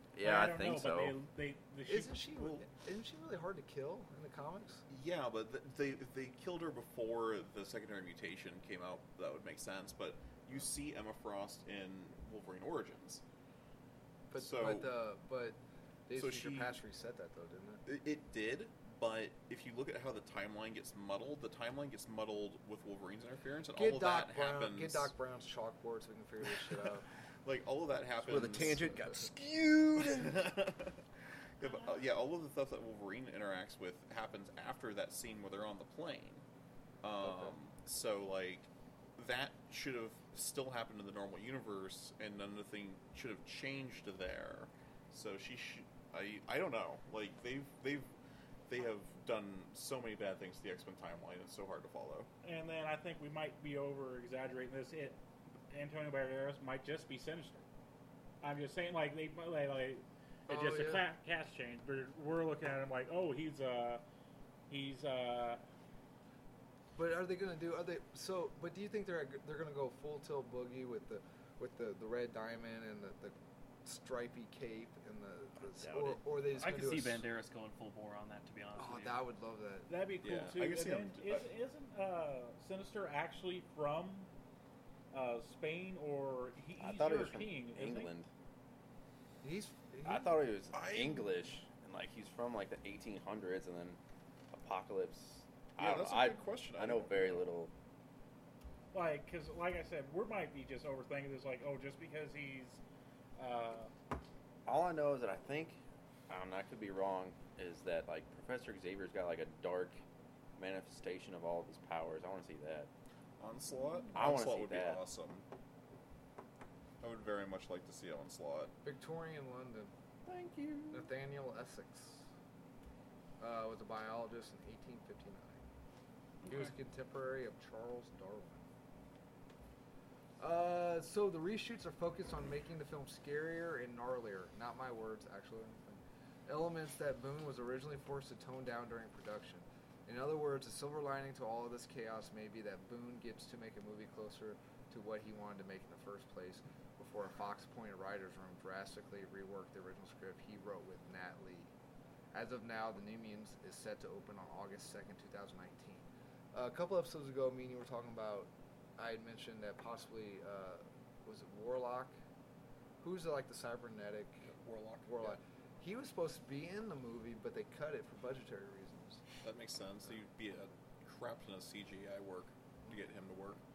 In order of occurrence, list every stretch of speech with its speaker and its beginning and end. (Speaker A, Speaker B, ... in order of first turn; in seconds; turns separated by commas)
Speaker A: 0.1-1.1, Speaker B: 0.2-2.2, Speaker C: 1.9-4.8, Speaker D: 2.4-2.6, Speaker D: 4.9-13.2, Speaker C: 14.3-17.8, Speaker D: 14.4-14.9, Speaker D: 16.1-16.7, Speaker D: 17.9-25.1, Speaker C: 23.7-27.0, Speaker D: 27.4-28.9, Speaker A: 28.2-30.6, Speaker D: 30.0-30.9, Speaker D: 31.6-36.4, Speaker D: 37.0-48.1, Speaker C: 37.2-37.5, Speaker D: 48.7-52.3, Speaker B: 52.4-57.6, Speaker B: 58.4-64.0, Speaker C: 60.5-61.0, Speaker B: 64.7-65.6, Speaker C: 66.9-77.3, Speaker A: 75.8-76.2, Speaker E: 76.5-79.2, Speaker C: 78.8-79.9, Speaker B: 79.9-84.3, Speaker D: 80.2-81.4, Speaker B: 85.1-88.1, Speaker A: 86.8-88.3, Speaker C: 89.4-90.4, Speaker A: 90.0-94.0, Speaker D: 90.7-91.3, Speaker A: 94.5-97.7, Speaker D: 95.8-97.4, Speaker B: 98.9-102.8, Speaker B: 103.4-103.9, Speaker A: 104.7-110.0, Speaker A: 110.6-112.9, Speaker D: 113.4-115.4, Speaker A: 114.1-115.0, Speaker D: 117.0-118.7, Speaker C: 118.8-119.9, Speaker A: 120.2-121.1, Speaker C: 120.9-122.2, Speaker C: 123.4-125.6, Speaker C: 126.5-128.6, Speaker C: 130.4-151.7, Speaker C: 152.3-162.2, Speaker C: 163.0-164.5, Speaker D: 164.5-165.3, Speaker C: 165.0-169.2, Speaker D: 169.4-173.6